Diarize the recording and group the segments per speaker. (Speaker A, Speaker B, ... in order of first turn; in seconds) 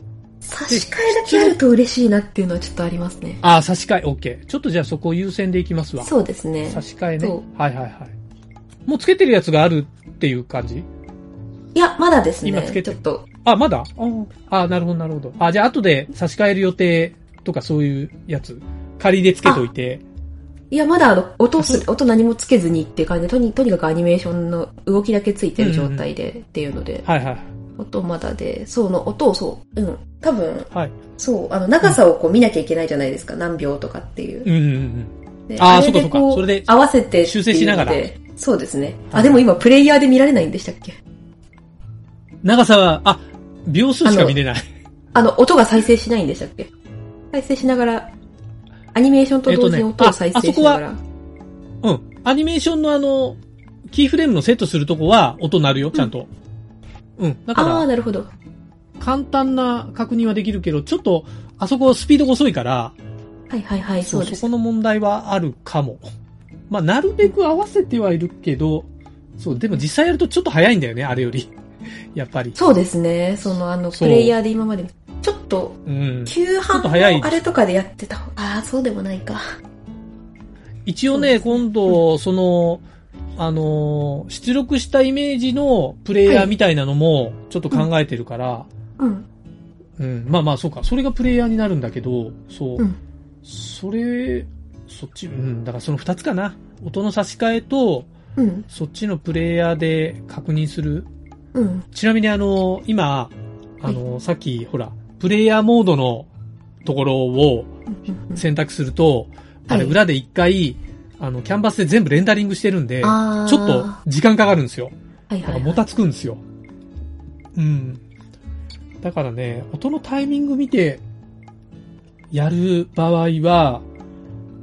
Speaker A: 0.4-3.4, 6.0-7.4, 11.7-13.3, 20.7-27.1, 27.8-34.5, 35.5-41.0, 44.0-44.4, 45.1-46.7, 47.3-48.1, 48.9-51.0, 57.5-58.3, 63.5-64.5, 72.5-79.5, 81.1-82.0, 86.3-86.5, 89.0-89.3, 98.4-98.7, 101.5-101.9, 107.9-108.4, 109.7-110.0, 113.0-114.0, 115.3-115.8
Speaker B: 0.7-1.6, 3.4-6.1, 6.7-8.2, 8.9-10.9, 12.4-20.0, 21.6-21.8, 25.6-26.1, 27.1-27.5, 34.5-36.7, 37.2-38.0, 39.1-39.4, 42.4-44.6, 49.5-50.8, 51.8-56.3, 57.2-57.9, 59.0-63.0, 64.0-66.1, 66.7-71.5, 72.1-72.6, 73.9-74.3, 75.9-77.4, 80.9-82.8, 83.4-88.7, 90.0-92.8, 93.4-98.1, 98.7-101.1, 101.9-106.3, 106.8-107.7, 108.3-114.9, 115.5-116.4, 117.5-118.0, 119.0-121.0, 122.3-123.9